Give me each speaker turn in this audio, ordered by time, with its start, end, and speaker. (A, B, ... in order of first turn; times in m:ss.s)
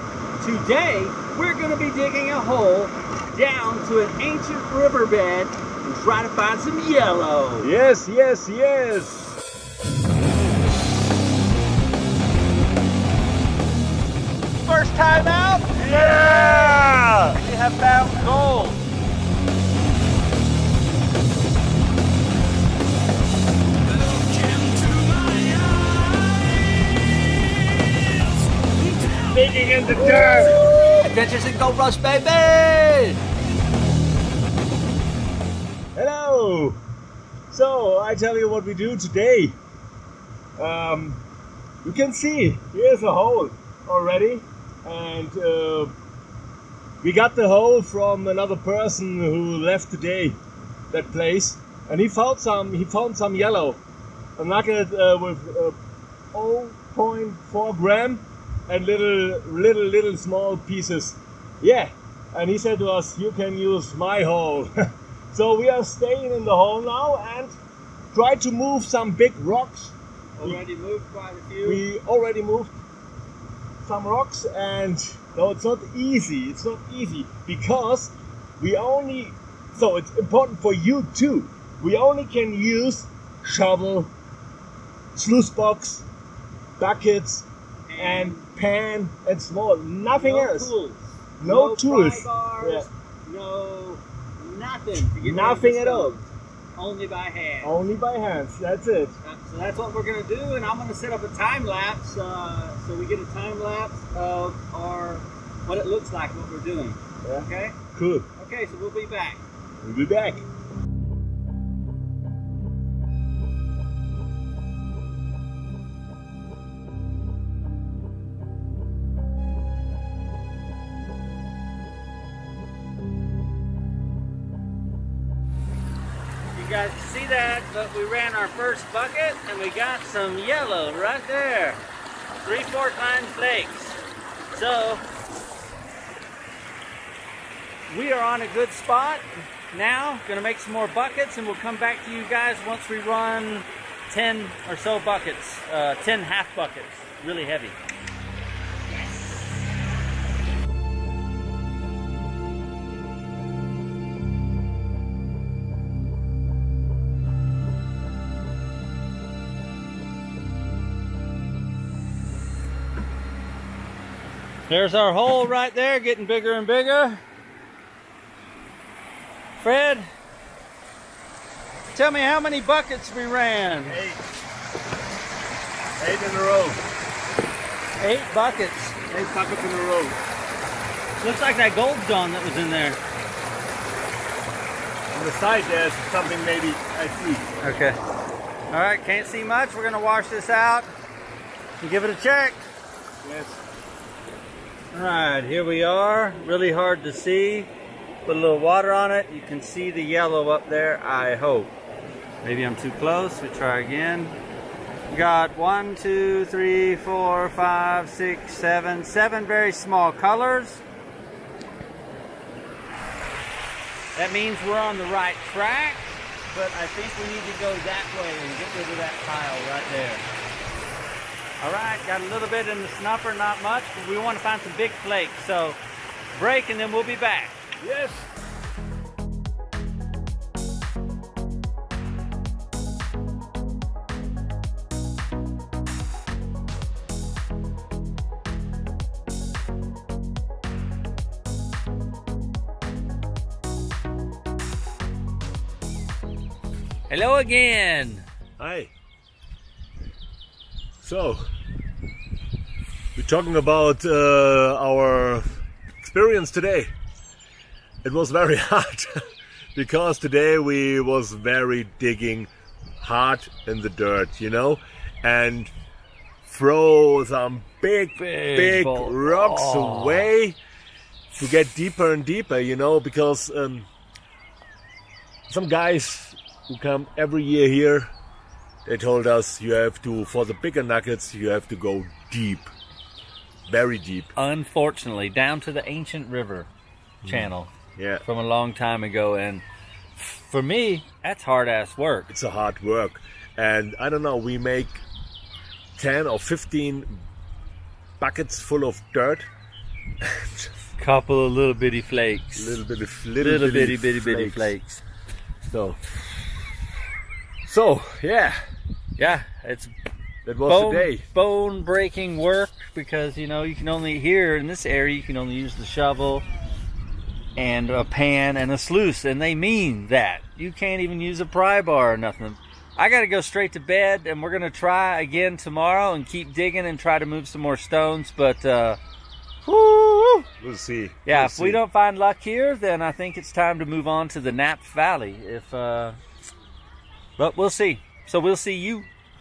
0:00.4-0:07.7 A
0:07.6-0:09.4 B
0:14.6-0:18.8 A
0:15.8-0:17.4 B
0:29.2-0:30.6 B
0:30.5-0:33.2 A
0:35.9-0:36.8 B
0:37.5-0:39.6 B
0:40.6-0:41.2 B
0:41.8-0:45.9 B
0:47.0-0:50.4 B
0:50.9-0:53.8 B
0:54.4-0:55.8 B
0:56.3-1:04.7 B
1:05.3-1:07.6 B
1:08.1-1:10.6 B
1:10.4-1:11.8 A
1:11.6-1:12.7 B
1:13.8-1:24.1 B
1:25.1-1:26.0 B
1:26.8-1:30.7 B
1:27.9-1:28.4 A
1:30.1-1:37.8 A
1:31.4-1:32.9 B
1:35.2-1:36.2 B
1:37.6-1:39.2 B
1:39.2-1:47.8 A
1:47.2-1:48.3 B
1:48.4-1:49.4 A
1:49.8-1:50.4 B
2:06.5-2:11.8 A
2:12.4-2:14.0 A
2:14.5-2:15.0 A
2:17.9-2:27.8 A
2:44.7-2:47.2 A
2:49.6-2:50.1 A
2:51.9-2:54.0 A
2:53.8-2:54.2 B
2:56.0-2:56.8 B
2:58.0-2:59.0 A
2:59.1-3:00.2 B
3:01.2-3:03.0 A
3:05.1-3:07.4 B
3:07.6-3:08.0 A
3:08.7-3:10.9 A
3:11.8-3:12.6 A
3:13.2-3:13.6 B
3:14.9-3:17.7 A
3:18.2-3:21.7 A
3:22.4-3:24.4 A
3:25.1-3:30.8 A
3:34.1-3:40.2 A
3:41.6-3:45.8 A
3:46.3-3:47.6 A
3:47.8-3:48.3 B
4:07.1-4:08.2 A
4:08.6-4:08.9 B
4:11.0-4:11.4 B
4:13.2-4:15.5 B
4:16.0-4:16.9 B
4:18.0-4:19.1 B
4:19.7-4:22.5 B
4:23.0-4:25.7 B
4:26.4-4:30.6 B
4:28.1-4:30.3 A
4:31.3-4:33.9 B
4:35.5-4:38.1 B
4:38.8-4:42.7 B
4:43.7-4:44.3 B
4:44.4-4:46.7 A
4:47.2-4:47.7 A
4:47.2-4:48.2 B
4:48.2-4:49.6 A
4:50.2-4:52.3 A
4:52.3-4:55.0 B
4:56.0-4:57.2 B
4:58.2-4:59.5 B
5:00.2-5:00.7 B
5:01.0-5:02.8 A
5:02.5-5:04.7 B
5:03.4-5:05.0 A
5:05.7-5:06.0 B
5:07.6-5:08.6 B
5:09.2-5:09.9 A
5:10.4-5:11.2 B
5:10.6-5:16.4 A
5:17.6-5:29.0 A
5:29.6-5:30.5 A
5:30.6-5:31.8 B
5:31.2-5:36.2 A
5:37.4-5:39.1 A